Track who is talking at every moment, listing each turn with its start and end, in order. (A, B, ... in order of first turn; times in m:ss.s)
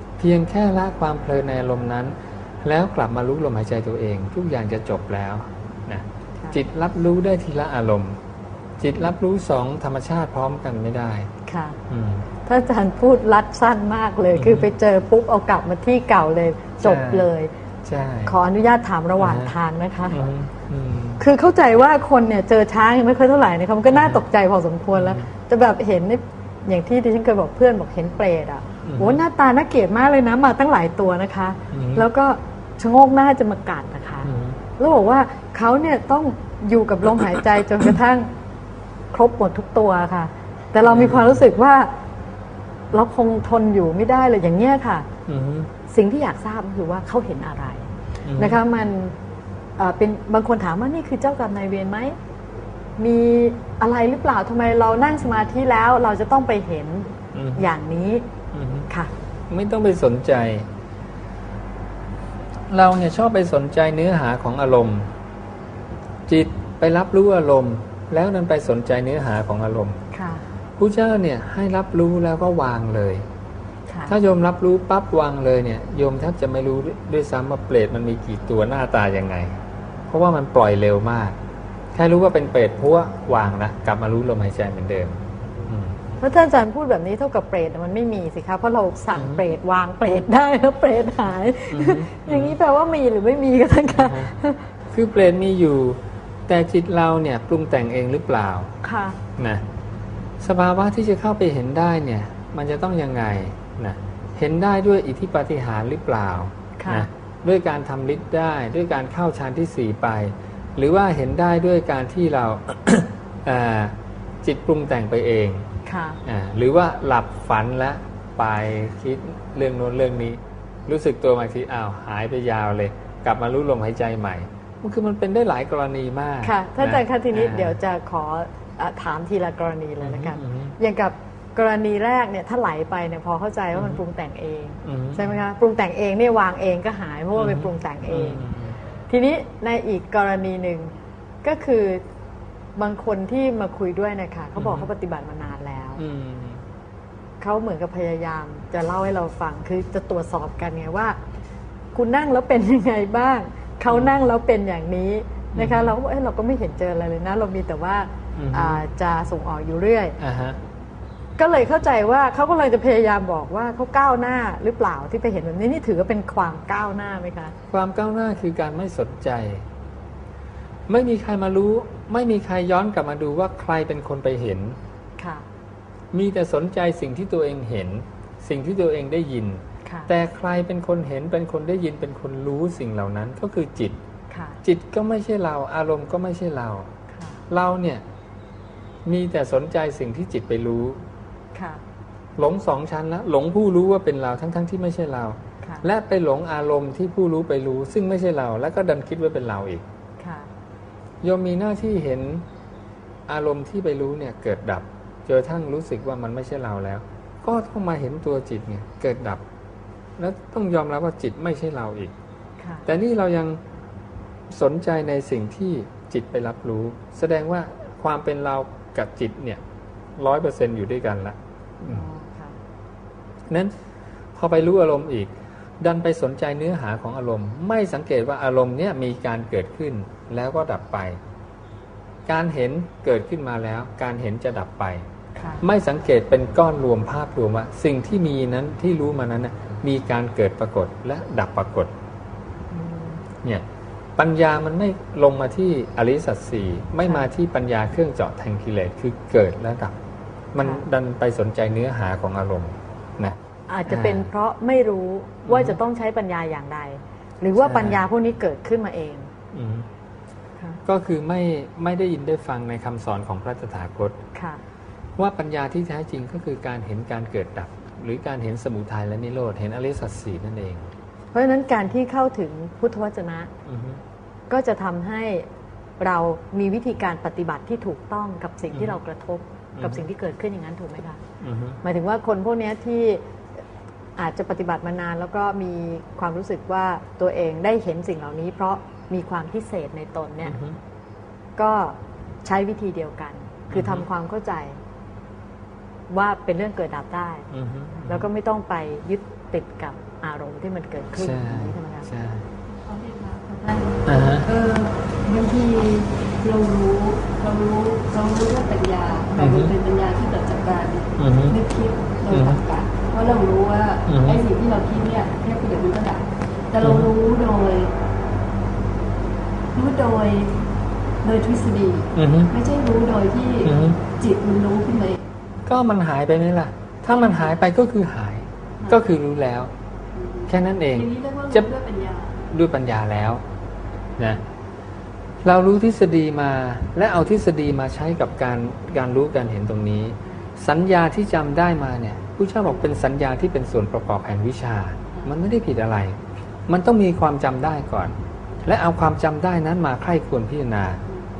0:00.2-0:08.2 A
0:08.8-0:11.3 A
0:11.4-0:11.8 B
0:11.9-0:12.3 A
0:12.4-0:17.5 B
0:14.3-0:14.7 A
0:16.8-0:17.3 A
0:17.8-0:18.4 A
0:18.2-0:20.2 B
0:19.2-0:19.5 A
0:20.1-0:21.2 A
0:21.2-0:38.3 B
0:23.9-0:24.2 A
0:24.9-0:25.2 A
0:28.8-0:29.2 A
0:31.7-0:32.0 A
0:34.2-0:34.6 A
0:39.1-0:41.9 B
0:40.8-0:41.4 A
0:42.9-0:45.1 B
0:45.3-0:45.7 A
0:45.9-0:49.2 B
0:48.2-0:48.6 A
0:49.8-0:52.2 B
0:53.0-0:58.2 B
0:57.3-0:57.7 A
0:58.5-0:58.9 A
0:59.5-1:00.7 A
1:02.7-1:05.1 A
1:06.3-1:10.0 A
1:10.1-1:10.4 B
1:10.8-1:13.2 A
1:13.9-1:14.2 B
1:14.1-1:19.6 A
1:20.1-1:21.4 A
1:21.9-1:26.0 A
1:26.2-1:34.7 B
1:29.1-1:29.4 A
1:31.7-1:32.6 A
1:33.9-1:34.3 A
1:34.9-1:38.7 A
1:38.8-1:39.2 B
1:39.4-1:39.6 A
1:40.4-1:55.7 A
1:46.8-1:47.1 B
1:55.8-1:56.2 B
1:56.2-2:07.8 A
2:06.4-2:18.4 B
2:10.0-2:10.7 A
2:14.8-2:15.3 A
2:17.4-2:18.8 A
2:19.1-2:22.0 B
2:22.8-2:26.0 B
2:24.6-2:24.9 A
2:26.0-2:26.6 A
2:27.4-2:31.2 B
2:31.9-2:40.2 B
2:33.9-2:34.1 A
2:35.5-2:36.0 A
2:38.4-2:38.8 A
2:40.2-2:40.6 A
2:41.4-2:47.5 B
2:47.7-2:49.6 A
2:50.9-2:54.8 A
2:55.2-2:55.4 B
2:56.1-3:04.0 A
2:59.8-3:00.1 B
3:04.3-3:04.6 B
3:04.6-3:06.9 A
3:07.1-3:07.4 B
3:07.5-3:08.0 A
3:09.0-3:11.0 A
3:11.5-3:11.8 B
3:12.4-3:19.8 A
3:15.6-3:15.8 B
3:20.2-3:20.5 B
3:21.2-3:22.4 A
3:23.3-3:29.4 A
3:30.2-3:32.1 A
3:32.6-3:32.9 B
3:32.8-3:33.6 A
3:34.5-3:39.6 A
3:40.2-3:42.1 A
3:41.9-3:42.6 B
3:44.4-3:51.2 A
3:52.2-3:55.0 A
3:55.4-3:55.6 B
3:55.6-4:01.9 A
4:02.7-4:03.2 B
4:04.2-4:09.9 A
4:10.5-4:13.4 A
4:10.6-4:10.8 B
4:13.7-4:19.3 B
4:13.9-4:14.3 A
4:15.4-4:15.8 A
4:17.6-4:18.0 A
4:19.5-4:19.9 A
4:20.8-4:24.2 A
4:24.3-4:24.6 B
4:25.2-4:30.9 A
4:31.3-4:33.5 B
4:33.7-4:34.0 A
4:34.5-4:35.5 B
4:36.0-4:41.2 B
4:39.8-4:40.0 A
4:41.4-4:41.8 A
4:41.8-4:43.2 B
4:44.2-4:50.6 B
4:50.4-4:50.8 A
4:51.6-4:54.8 B
4:53.7-4:54.0 A
4:56.1-4:57.5 B
4:57.5-4:58.3 A
4:58.0-5:02.1 B
5:01.2-5:02.4 A
5:02.8-5:17.9 C
5:04.0-5:04.4 A
5:09.4-5:09.7 A
5:11.2-5:11.6 A
5:12.3-5:12.6 A
5:14.1-5:14.4 A
5:16.8-5:17.1 A
5:19.7-5:20.6 C
5:21.2-5:25.2 C
5:22.2-5:22.5 A
5:23.6-5:24.0 A
5:25.6-5:29.7 A
5:27.1-5:27.5 C
5:30.1-5:32.4 C
5:30.5-5:31.7 A
5:32.5-5:33.4 A
5:35.4-5:51.0 A